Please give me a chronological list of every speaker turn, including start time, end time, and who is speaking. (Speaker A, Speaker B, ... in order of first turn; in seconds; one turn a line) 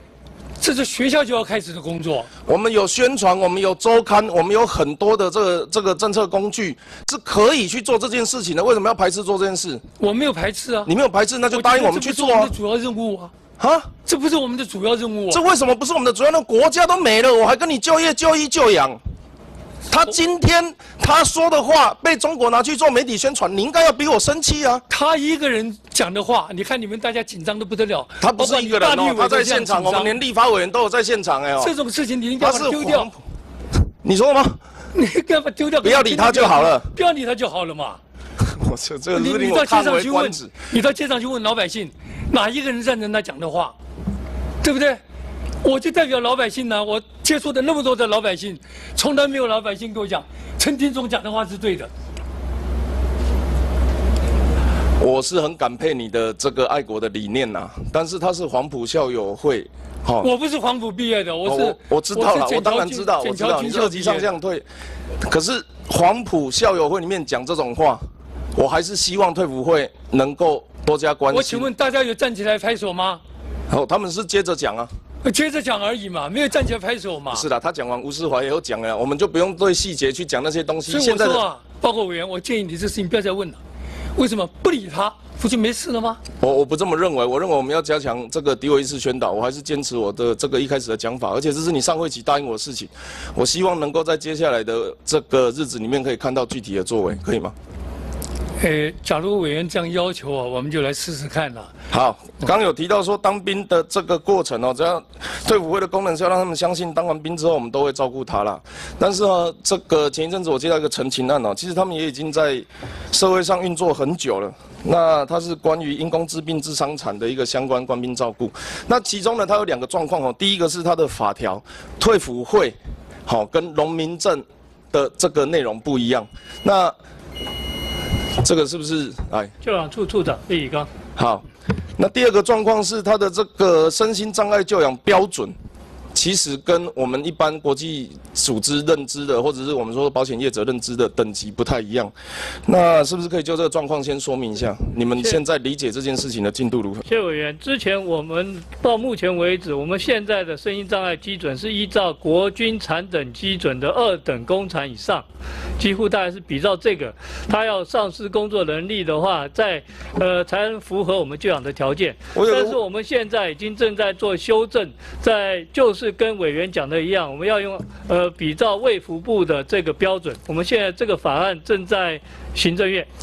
Speaker A: 0.6-2.3
Speaker B: 2.5-9.8
Speaker A: 10.0-10.9
Speaker B: 10.8-12.5
Speaker A: 11.5-13.3
Speaker B: 13.6-13.9
Speaker A: 14.0-15.4
Speaker B: 15.3-19.0
Speaker B: 19.9-24.8
Speaker A: 24.9-30.2
Speaker B: 28.2-31.8
Speaker A: 31.6-33.1
Speaker B: 32.4-33.2
Speaker B: 34.0-34.6
Speaker A: 34.9-38.0
Speaker B: 35.8-36.9
Speaker B: 38.4-40.5
Speaker A: 39.1-43.8
Speaker A: 44.6-45.0
Speaker A: 45.6-51.9
Speaker B: 55.0-60.3
Speaker A: 60.2-64.3
Speaker B: 61.4-64.6
Speaker B: 65.2-68.0
Speaker B: 68.5-71.7
Speaker A: 71.3-73.2
Speaker B: 73.7-74.9
Speaker A: 75.2-77.4
Speaker B: 77.3-81.4
Speaker A: 80.8-83.6
Speaker A: 84.1-86.2
Speaker B: 86.4-97.5
Speaker A: 98.6-101.7
Speaker B: 101.9-122.8
Speaker B: 123.2-126.9
Speaker B: 128.4-129.5
Speaker C: 129.6-130.9
Speaker B: 131.2-131.4
Speaker B: 132.0-135.5
Speaker B: 136.1-142.1
Speaker B: 142.7-147.0
Speaker C: 147.1-155.2
Speaker C: 155.8-173.1
Speaker B: 162.3-162.8